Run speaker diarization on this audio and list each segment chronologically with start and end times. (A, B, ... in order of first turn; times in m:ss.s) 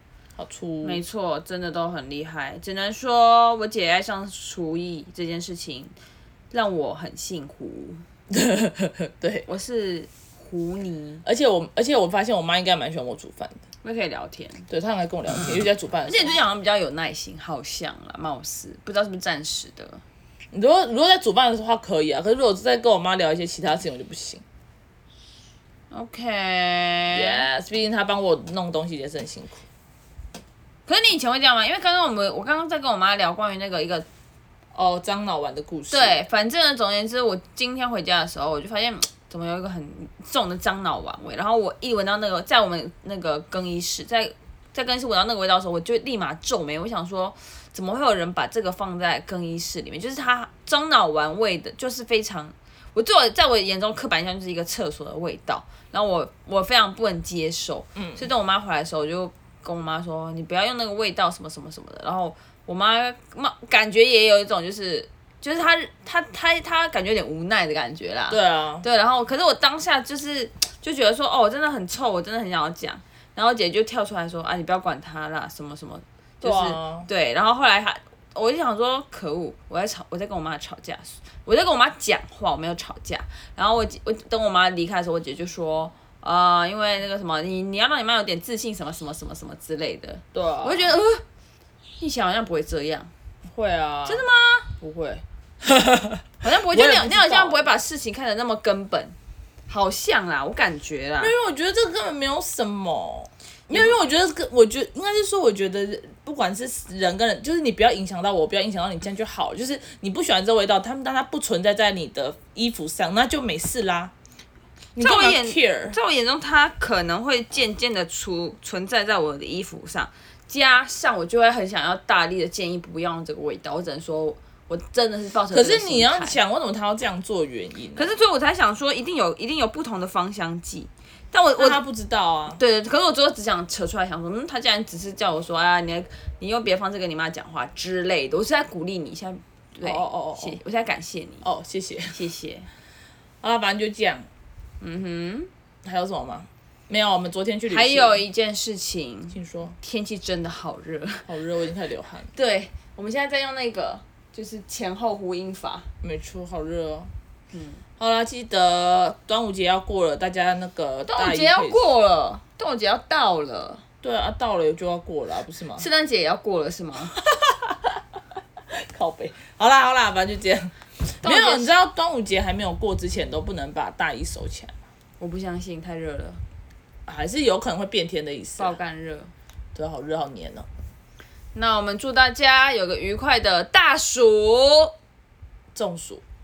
0:00.4-0:01.0 A
0:00.8-0:05.9 B
0:06.5-0:08.1 B
0:08.3-0:09.5 A
0:09.5-0:11.2 B
0:11.2-0:13.6 A
0:13.8-0:14.6 B
0:14.7-0:16.4 A
0:16.0-0:20.0 B
0:20.5-0:24.4 A
0:25.9-0:27.5 B
0:27.1-0:29.6 A
0:30.9-0:34.1 B
0:34.7-0:36.2 A
0:35.9-1:31.2 B
0:58.0-0:58.3 A
1:08.3-1:08.8 A
1:16.4-1:17.1 A
1:30.3-1:30.9 A
1:32.0-1:33.1 B
1:33.5-1:34.3 A
1:34.1-1:34.7 B
1:34.8-1:37.7 A
1:36.4-1:39.2 B
1:39.7-1:41.3 B
1:41.2-1:54.1 A
1:43.7-1:44.0 B
1:55.0-1:56.0 A
1:55.0-2:06.4 B
2:05.5-2:08.2 A
2:08.0-2:11.8 B
2:11.6-2:12.6 A
2:12.5-2:21.4 B
2:19.8-2:20.6 A
2:21.4-2:22.2 A
2:22.1-2:22.7 B
2:23.4-2:24.3 A
2:24.8-2:25.5 B
2:25.8-2:28.2 A
2:27.7-2:31.3 B
2:29.3-2:29.8 A
2:31.3-2:32.3 A
2:32.3-2:35.9 B
2:36.0-2:37.1 A
2:37.5-2:37.8 B
2:38.0-2:41.8 A
2:41.1-2:43.8 B
2:44.0-2:45.9 A
2:45.8-2:47.2 B
2:47.2-2:48.0 A
2:48.7-2:54.8 A
2:51.2-2:51.7 B
2:55.2-2:56.4 B
2:57.1-2:58.8 A
2:58.6-2:59.3 B
2:59.8-3:00.7 A
3:01.5-3:04.9 B
3:05.7-3:06.2 A